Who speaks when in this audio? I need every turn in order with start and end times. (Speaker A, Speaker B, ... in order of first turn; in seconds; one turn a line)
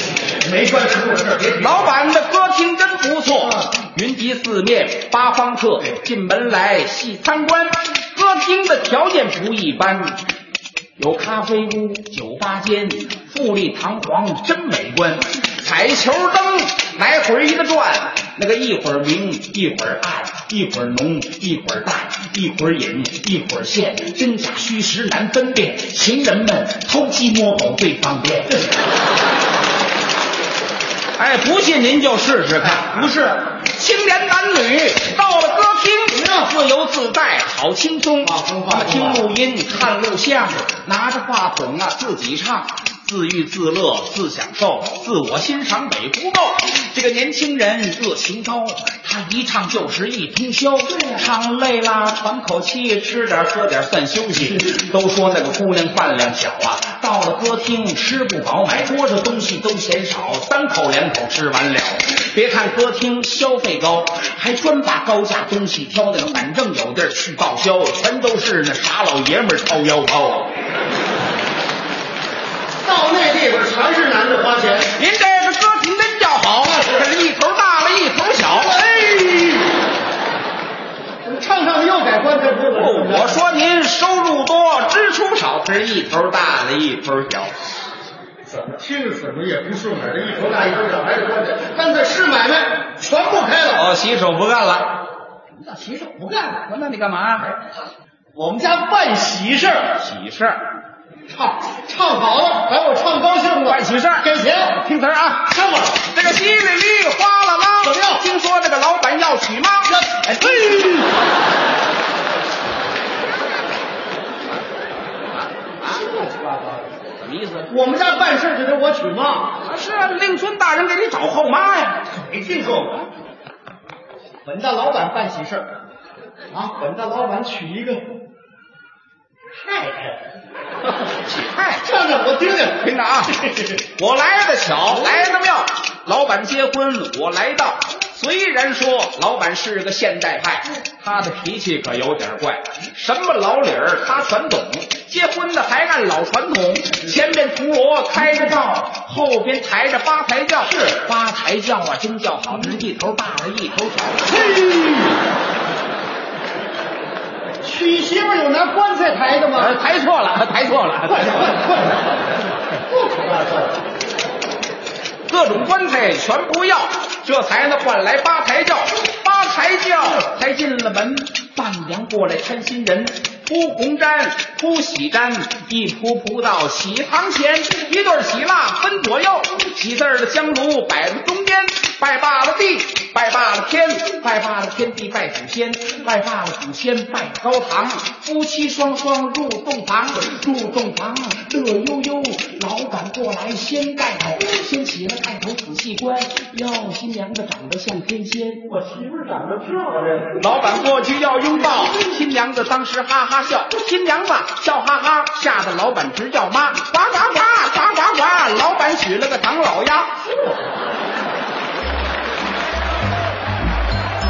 Speaker A: 0.4-1.9
Speaker B: 1.6-10.2
Speaker A: 3.4-3.7
Speaker B: 11.0-28.6
Speaker B: 31.2-33.1
Speaker A: 32.6-33.4
Speaker B: 33.7-70.5
Speaker A: 36.1-36.5
Speaker A: 38.2-39.3
Speaker A: 50.9-51.2
Speaker A: 72.8-74.9
Speaker B: 75.0-78.8
Speaker A: 78.5-79.7
Speaker A: 81.2-83.4
Speaker B: 82.7-87.5
Speaker A: 88.5-93.9
Speaker B: 93.7-95.0
Speaker A: 95.6-96.6
Speaker B: 96.6-97.5
Speaker A: 98.3-100.0
Speaker B: 100.0-100.6
Speaker A: 101.3-104.8
Speaker B: 103.7-104.2
Speaker B: 104.8-105.5
Speaker A: 105.5-106.0
Speaker B: 106.1-111.0
Speaker A: 107.8-108.2
Speaker A: 109.9-111.0
Speaker A: 115.9-116.9
Speaker B: 117.2-117.7
Speaker A: 117.7-119.5
Speaker B: 119.6-122.0
Speaker A: 122.1-123.0
Speaker A: 124.4-125.7
Speaker A: 126.5-128.0
Speaker A: 129.6-130.2
Speaker B: 131.0-131.8
Speaker A: 131.8-133.7
Speaker B: 132.7-154.9
Speaker A: 154.4-154.7
Speaker A: 157.6-159.8
Speaker B: 159.5-161.5
Speaker A: 161.1-162.2
Speaker A: 162.9-163.8
Speaker B: 165.3-198.8
Speaker A: 198.8-200.6
Speaker B: 200.4-210.1
Speaker A: 201.7-202.0
Speaker A: 210.2-210.7